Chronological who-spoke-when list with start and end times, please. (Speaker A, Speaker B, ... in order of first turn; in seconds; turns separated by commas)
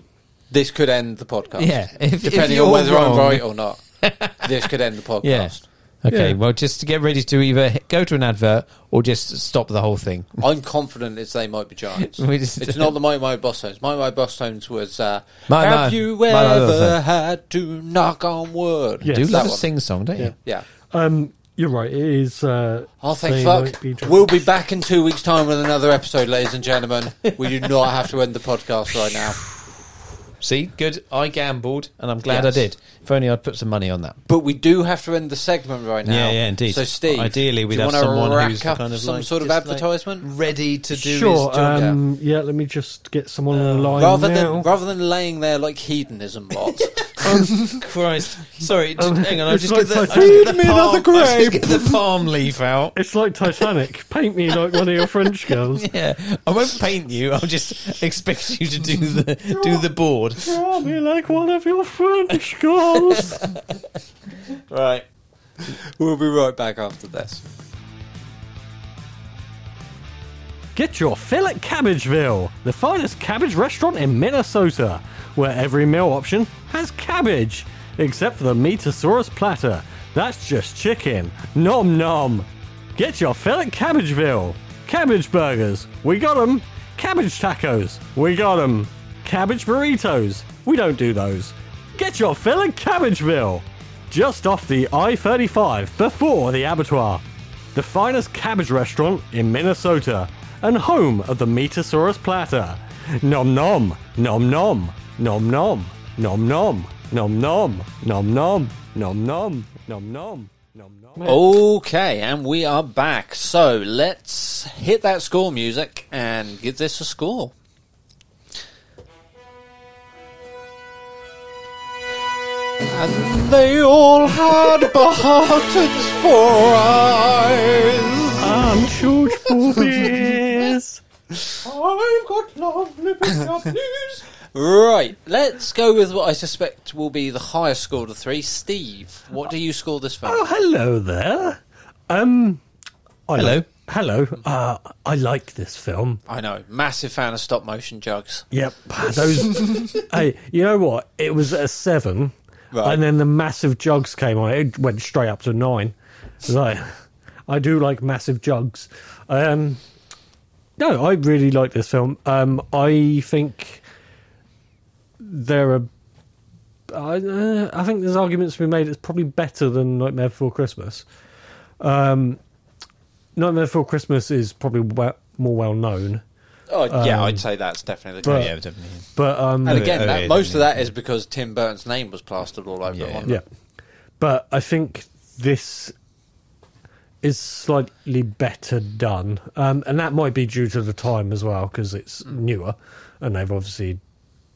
Speaker A: 0.5-5.7, Speaker B: 1.6-3.5, Speaker B: 4.0-4.7, Speaker B: 5.2-10.4, Speaker C: 6.1-6.4, Speaker A: 10.4-19.7, Speaker B: 12.0-13.0, Speaker B: 15.5-17.0, Speaker C: 19.0-19.5, Speaker B: 19.1-20.4, Speaker C: 20.9-24.4, Speaker A: 23.0-29.4, Speaker B: 30.4-34.2, Speaker A: 32.3-32.6, Speaker A: 34.3-40.3, Speaker B: 36.0-41.9, Speaker C: 40.9-44.7, Speaker A: 41.6-42.0, Speaker A: 43.5-47.8, Speaker B: 46.8-53.0, Speaker C: 49.0-50.5, Speaker A: 50.1-52.0, Speaker C: 53.0-55.9, Speaker B: 54.7-60.6, Speaker C: 60.5-63.4, Speaker B: 62.9-63.9, Speaker B: 64.5-65.1, Speaker A: 65.7-67.4, Speaker C: 70.8-97.2, Speaker C: 97.7-111.5, Speaker A: 111.2-117.5, Speaker A: 122.9-130.2, Speaker C: 128.4-131.0, Speaker A: 131.5-140.5, Speaker B: 132.9-133.7, Speaker C: 140.2-142.6, Speaker C: 143.3-146.2, Speaker B: 143.3-143.7, Speaker A: 146.3-148.5, Speaker C: 148.5-159.8, Speaker A: 152.7-153.0, Speaker C: 160.8-163.8, Speaker C: 165.2-165.9, Speaker C: 166.9-171.1, Speaker C: 171.8-172.4, Speaker C: 173.4-176.2, Speaker A: 176.7-178.5, Speaker C: 176.9-177.4, Speaker C: 178.2-178.5, Speaker B: 178.2-179.1, Speaker C: 179.2-179.9, Speaker B: 179.6-180.8, Speaker A: 179.7-183.4, Speaker B: 182.9-183.3, Speaker C: 184.2-185.9, Speaker C: 187.2-194.0